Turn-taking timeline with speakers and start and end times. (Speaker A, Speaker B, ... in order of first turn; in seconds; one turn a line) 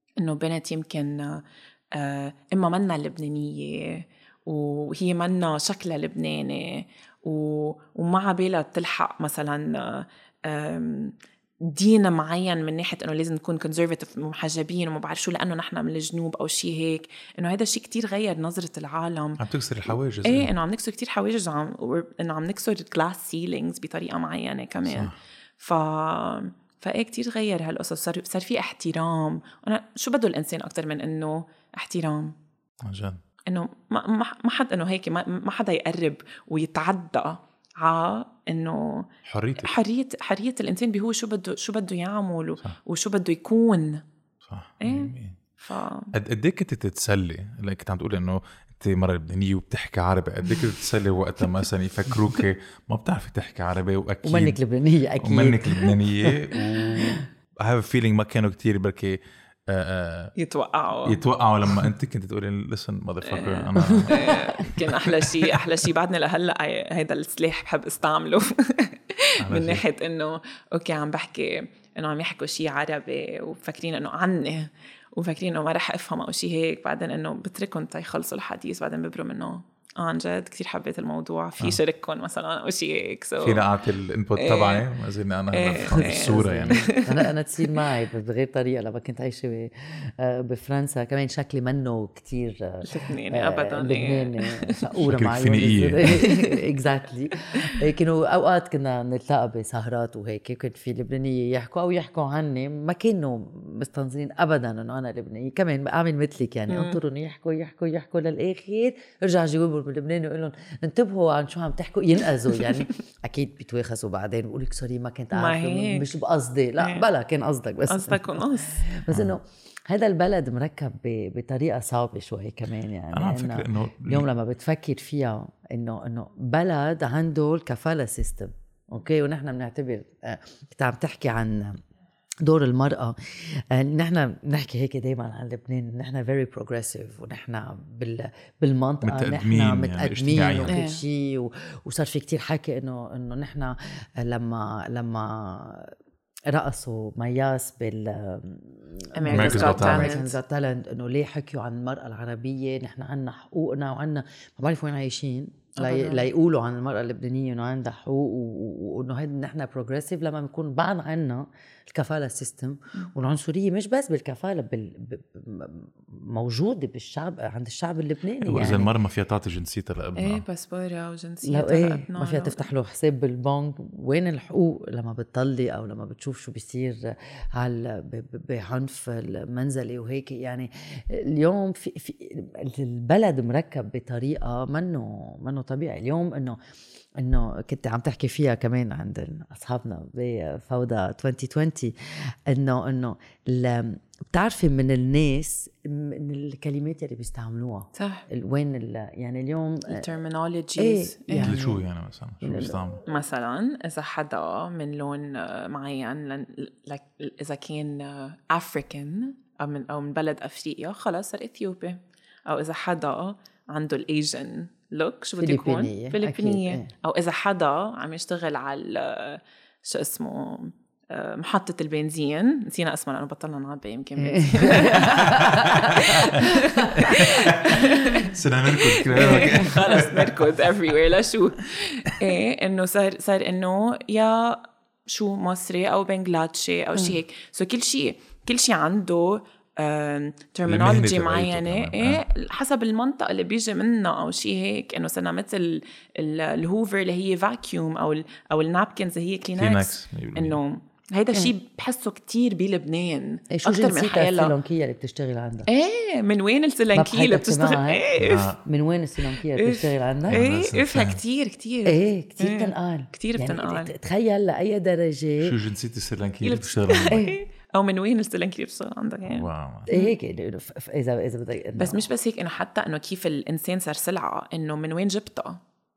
Speaker A: 0.2-19.4
Speaker B: 19.4-20.5
Speaker A: 20.2-32.4
Speaker B: 24.9-25.1
Speaker B: 32.8-33.2
Speaker A: 33.5-39.1
Speaker B: 39.3-39.8
Speaker A: 39.6-44.0
Speaker B: 44.5-45.4
Speaker A: 44.8-46.1
Speaker B: 46.1-54.6
Speaker C: 54.2-57.2
Speaker B: 55.2-60.3
Speaker A: 60.4-61.2
Speaker B: 61.0-65.2
Speaker A: 63.3-83.6
Speaker C: 63.8-64.5
Speaker B: 69.4-69.8
Speaker B: 83.4-86.8
Speaker A: 84.4-84.8
Speaker A: 85.5-87.2
Speaker C: 85.8-131.8
Speaker A: 92.8-94.8
Speaker B: 95.0-96.3
Speaker A: 96.2-96.6
Speaker A: 106.7-107.0
Speaker A: 115.3-116.1
Speaker A: 116.8-117.1
Speaker A: 117.9-118.9
Speaker B: 123.1-124.3
Speaker C: 132.4-145.9
Speaker B: 139.0-140.7
Speaker A: 140.7-141.0
Speaker C: 146.5-168.9
Speaker A: 149.1-150.3
Speaker B: 149.3-150.2
Speaker A: 155.8-156.3
Speaker B: 168.4-170.4
Speaker A: 170.2-172.7
Speaker C: 171.4-186.6
Speaker C: 187.1-200.1
Speaker A: 197.9-198.2
Speaker A: 199.9-201.6
Speaker C: 200.8-201.8
Speaker B: 201.4-203.0
Speaker C: 202.4-203.0
Speaker A: 203.1-254.5
Speaker C: 215.4-216.9
Speaker C: 224.2-226.0
Speaker B: 224.9-226.1
Speaker C: 226.6-227.3
Speaker B: 227.0-230.5
Speaker B: 240.7-242.2
Speaker B: 249.6-250.6
Speaker C: 253.5-255.7
Speaker A: 255.7-258.4
Speaker C: 256.9-260.4
Speaker B: 258.2-258.6
Speaker A: 259.5-263.9
Speaker B: 260.3-261.2
Speaker C: 261.9-265.6
Speaker B: 265.4-267.2
Speaker A: 266.4-270.1
Speaker C: 267.1-267.4
Speaker B: 269.3-269.9
Speaker C: 269.9-272.0
Speaker A: 271.8-275.6